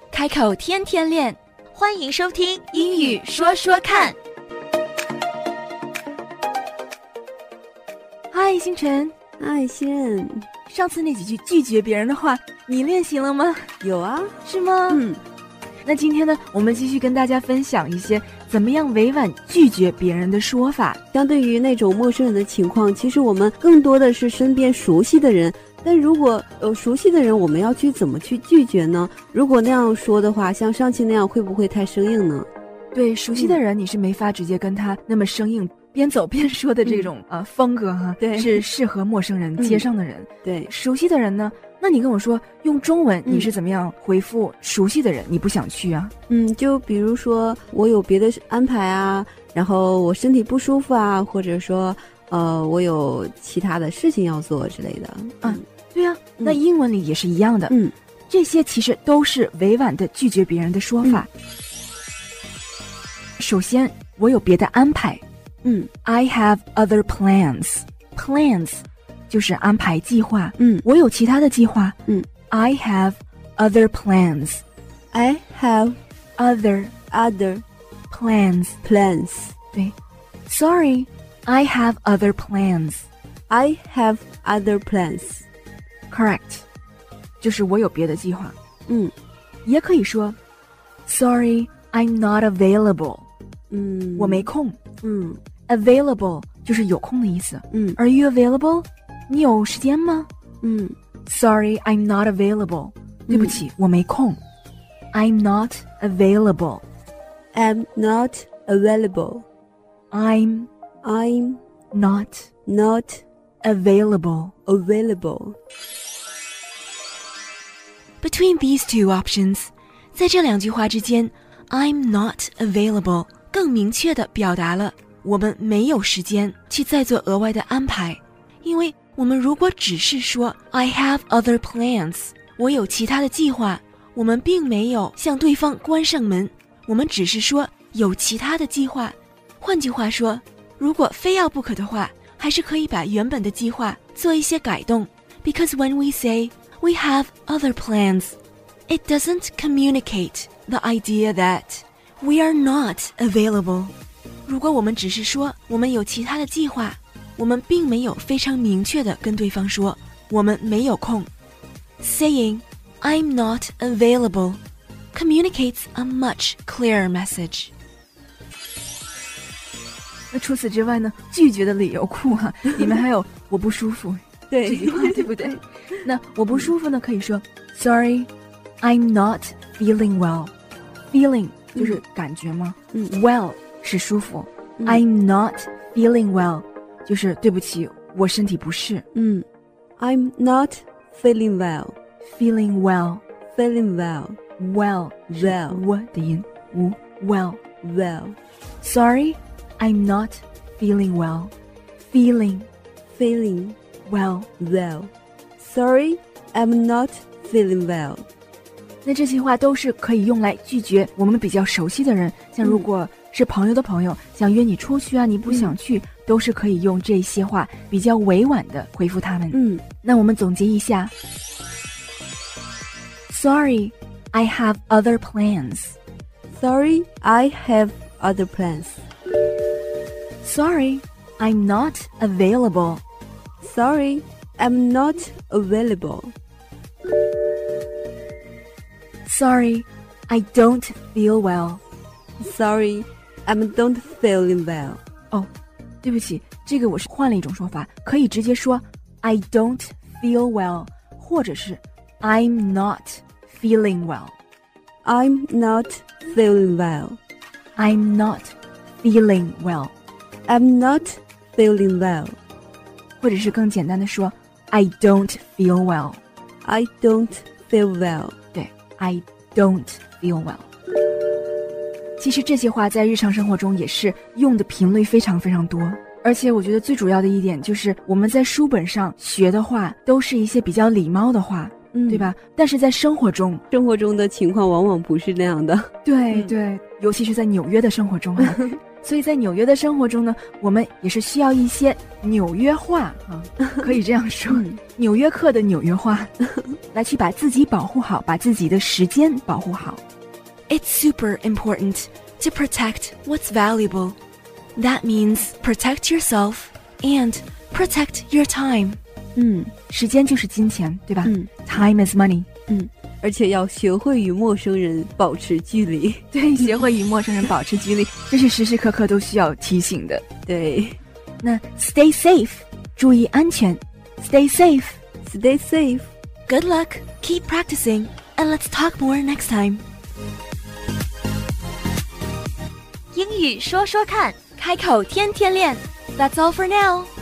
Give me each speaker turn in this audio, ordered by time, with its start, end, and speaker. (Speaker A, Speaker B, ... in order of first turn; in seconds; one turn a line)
Speaker A: 0.1-1.4
Speaker B: 1.7-4.2
Speaker A: 2.7-3.7
Speaker A: 8.3-9.1
Speaker C: 9.4-10.5
Speaker A: 10.7-13.7
Speaker C: 13.8-14.4
Speaker A: 14.4-15.0
Speaker C: 14.9-15.2
Speaker A: 15.8-21.0
Speaker C: 21.1-32.5
Speaker A: 32.9-46.1
Speaker C: 36.9-37.1
Speaker C: 38.2-38.6
Speaker C: 39.6-39.9
Speaker C: 40.4-40.7
Speaker C: 46.3-55.6
Speaker A: 55.4-57.8
Speaker C: 57.7-57.9
Speaker A: 58.3-61.3
Speaker A: 63.4-65.2
Speaker C: 65.6-65.9
Speaker A: 66.0-72.0
Speaker C: 70.6-70.8
Speaker A: 72.5-74.6
Speaker C: 75.1-76.0
Speaker A: 76.4-76.9
Speaker C: 77.1-77.6
Speaker A: 78.1-78.8
Speaker C: 78.8-79.5
Speaker A: 80.5-83.1
Speaker C: 83.5-85.5
Speaker A: 86.1-86.7
Speaker A: 87.4-88.6
Speaker C: 88.9-89.1
Speaker A: 89.7-90.4
Speaker A: 91.1-93.3
Speaker C: 93.7-94.5
Speaker A: 94.2-94.8
Speaker C: 95.0-95.4
Speaker A: 95.7-100.3
Speaker C: 97.7-98.0
Speaker C: 100.6-101.0
Speaker A: 101.3-104.4
Speaker C: 103.3-103.6
Speaker A: 105.1-106.8
Speaker C: 107.5-109.5
Speaker A: 110.1-110.7
Speaker C: 111.0-111.6
Speaker A: 111.9-112.5
Speaker C: 112.7-113.2
Speaker A: 113.6-114.5
Speaker C: 114.7-115.6
Speaker A: 118.2-148.4
Speaker A: 148.9-153.9
Speaker A: 154.5-161.3
Speaker A: 162.0-164.6
Speaker A: 165.1-167.7
Speaker A: 170.3-178.3
Speaker C: 174.5-175.5
Speaker A: 178.8-180.5
Speaker A: 181.1-189.1
Speaker C: 181.8-182.0
Speaker C: 189.1-189.5
Speaker C: 190.0-192.0
Speaker A: 192.2-193.2
Speaker C: 193.6-194.4
Speaker A: 194.6-197.6
Speaker C: 195.3-195.8
Speaker C: 197.8-198.4
Speaker A: 198.8-202.7
Speaker C: 203.1-203.8
Speaker A: 204.1-204.5
Speaker C: 204.6-208.2
Speaker A: 209.1-221.1
Speaker C: 212.6-212.9
Speaker C: 215.5-215.8
Speaker C: 219.5-219.8
Speaker A: 223.3-226.0
Speaker C: 226.5-229.0
Speaker A: 230.4-233.0
Speaker C: 233.6-236.3
Speaker A: 239.2-241.8
Speaker C: 242.4-245.0
Speaker A: 246.0-254.3
Speaker C: 255.0-257.2
Speaker A: 257.8-259.9
Speaker C: 260.5-262.4
Speaker A: 263.2-266.2
Speaker C: 266.6-268.4
Speaker A: 268.5-270.7
Speaker A: 272.2-283.6
Speaker C: 281.9-282.3
Speaker C: 283.7-286.5
Speaker A: 286.1-296.4
Speaker C: 294.5-294.8
Speaker A: 296.9-300.0
Speaker A: 300.7-304.2
Speaker A: 304.8-309.0
Speaker C: 309.4-309.7
Speaker A: 309.9-312.5
Speaker C: 311.2-311.5
Speaker C: 312.7-316.7
Speaker A: 316.3-320.2
Speaker C: 320.5-321.0
Speaker A: 321.4-325.0
Speaker C: 325.2-326.1
Speaker A: 326.5-329.8
Speaker B: 333.1-334.4
Speaker A: 334.6-337.1